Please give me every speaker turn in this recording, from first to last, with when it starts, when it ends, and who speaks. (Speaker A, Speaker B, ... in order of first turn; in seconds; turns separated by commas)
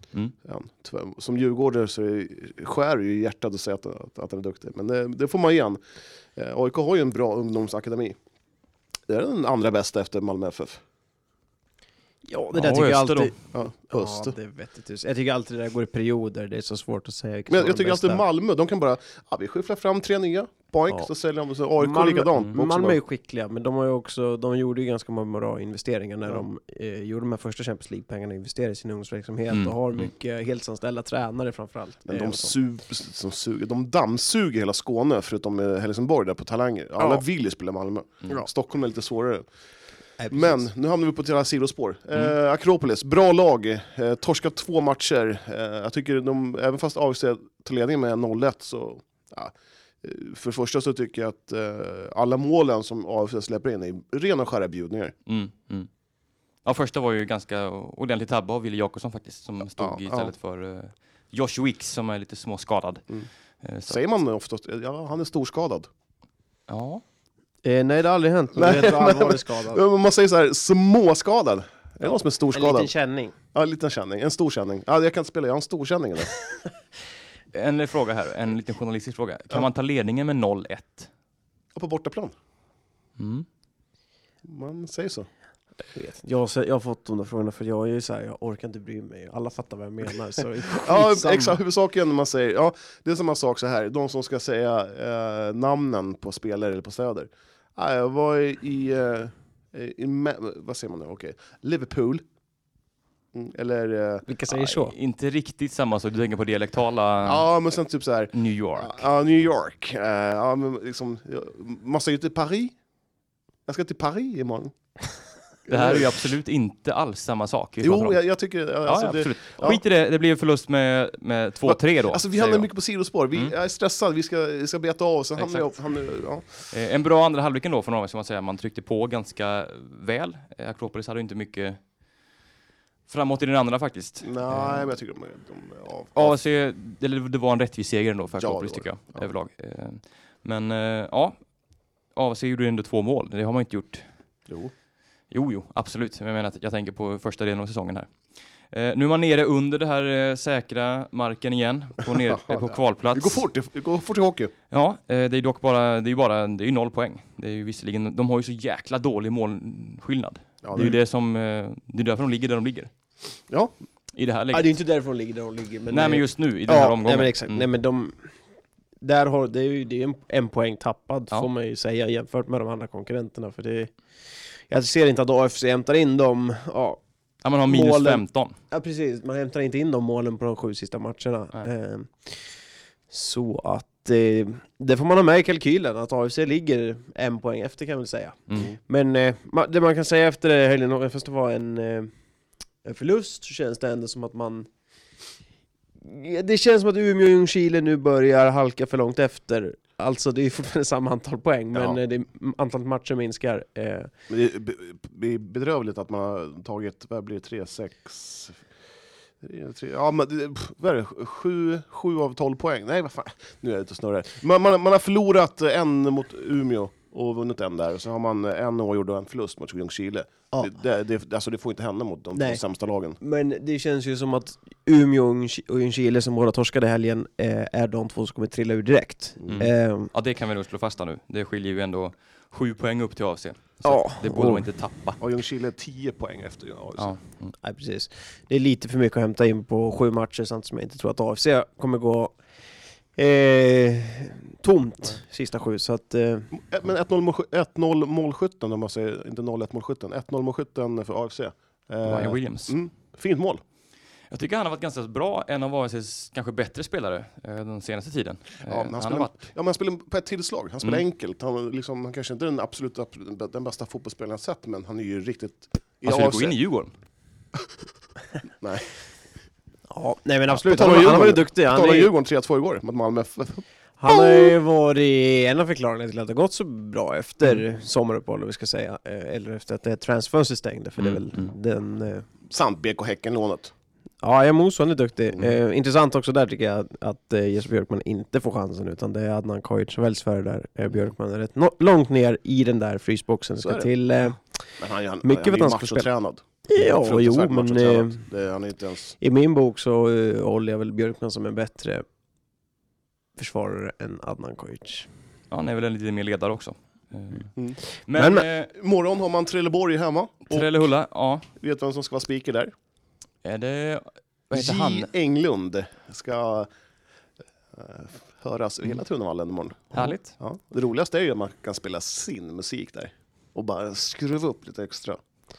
Speaker A: 0.5-5.8, Speaker A: 6.4-8.2, Speaker A: 9.1-10.8, Speaker B: 12.3-18.2, Speaker C: 12.5-13.3, Speaker A: 13.5-14.3, Speaker A: 17.5-23.0, Speaker B: 21.8-32.6, Speaker C: 29.5-30.1, Speaker A: 32.1-39.5, Speaker B: 40.2-40.7, Speaker A: 40.3-55.1, Speaker C: 55.3-55.9, Speaker C: 56.6-63.0, Speaker A: 59.8-60.3, Speaker C: 63.6-64.0, Speaker A: 63.9-65.9, Speaker C: 66.7-67.0, Speaker B: 67.6-69.8, Speaker A: 68.6-72.9, Speaker B: 72.0-73.3, Speaker A: 73.5-76.3, Speaker C: 77.5-81.1, Speaker A: 81.8-82.3, Speaker C: 83.2-83.5, Speaker A: 84.5-85.3, Speaker B: 85.9-91.6, Speaker A: 90.8-102.2, Speaker A: 103.3-104.2, Speaker B: 104.3-104.9, Speaker C: 104.6-107.5, Speaker A: 107.2-112.8, Speaker C: 108.3-109.0, Speaker A: 113.7-114.7, Speaker A: 115.7-116.2, Speaker C: 115.7-118.2, Speaker A: 117.8-119.8, Speaker C: 118.8-122.7, Speaker A: 121.7-126.5, Speaker C: 125.4-125.6, Speaker C: 126.7-131.8, Speaker C: 133.1-134.9, Speaker A: 134.2-136.4, Speaker C: 136.2-141.4, Speaker A: 138.3-139.2, Speaker C: 142.2-144.1, Speaker A: 144.5-144.7, Speaker C: 145.3-148.1, Speaker C: 148.7-153.5, Speaker A: 152.2-154.5, Speaker C: 154.7-162.9, Speaker A: 160.6-161.0, Speaker A: 163.5-163.8, Speaker C: 164.2-164.8, Speaker B: 164.5-168.2, Speaker C: 165.9-167.7, Speaker B: 169.0-173.9, Speaker B: 174.7-177.0, Speaker C: 177.4-178.5, Speaker B: 177.7-182.4, Speaker B: 183.1-192.1, Speaker B: 192.8-194.7, Speaker B: 196.0-204.1, Speaker A: 201.7-202.0, Speaker A: 204.3-208.6, Speaker A: 209.4-223.2, Speaker B: 222.3-222.6, Speaker B: 223.2-230.1, Speaker A: 229.4-229.7, Speaker C: 229.5-235.2, Speaker B: 233.8-234.7, Speaker A: 235.2-237.1, Speaker C: 237.0-237.5, Speaker B: 237.6-242.4, Speaker B: 243.2-246.5, Speaker A: 246.5-253.6, Speaker C: 252.1-252.8, Speaker C: 254.3-259.5, Speaker A: 258.7-266.6, Speaker C: 266.1-266.9, Speaker A: 268.6-268.9, Speaker B: 269.9-272.1, Speaker A: 270.6-274.5, Speaker B: 274.0-282.2, Speaker C: 281.0-281.5, Speaker A: 282.5-283.7, Speaker B: 284.2-294.6, Speaker A: 293.6-293.9, Speaker A: 294.8-299.2, Speaker B: 295.2-296.1, Speaker B: 296.7-298.2, Speaker B: 299.2-302.1, Speaker B: 303.4-305.1, Speaker C: 305.5-307.5, Speaker C: 308.1-308.7, Speaker B: 308.1-308.4, Speaker A: 308.7-310.7, Speaker C: 310.5-311.4, Speaker A: 311.6-312.7, Speaker C: 313.4-315.1, Speaker A: 314.5-316.7, Speaker A: 317.7-325.2, Speaker C: 319.9-320.3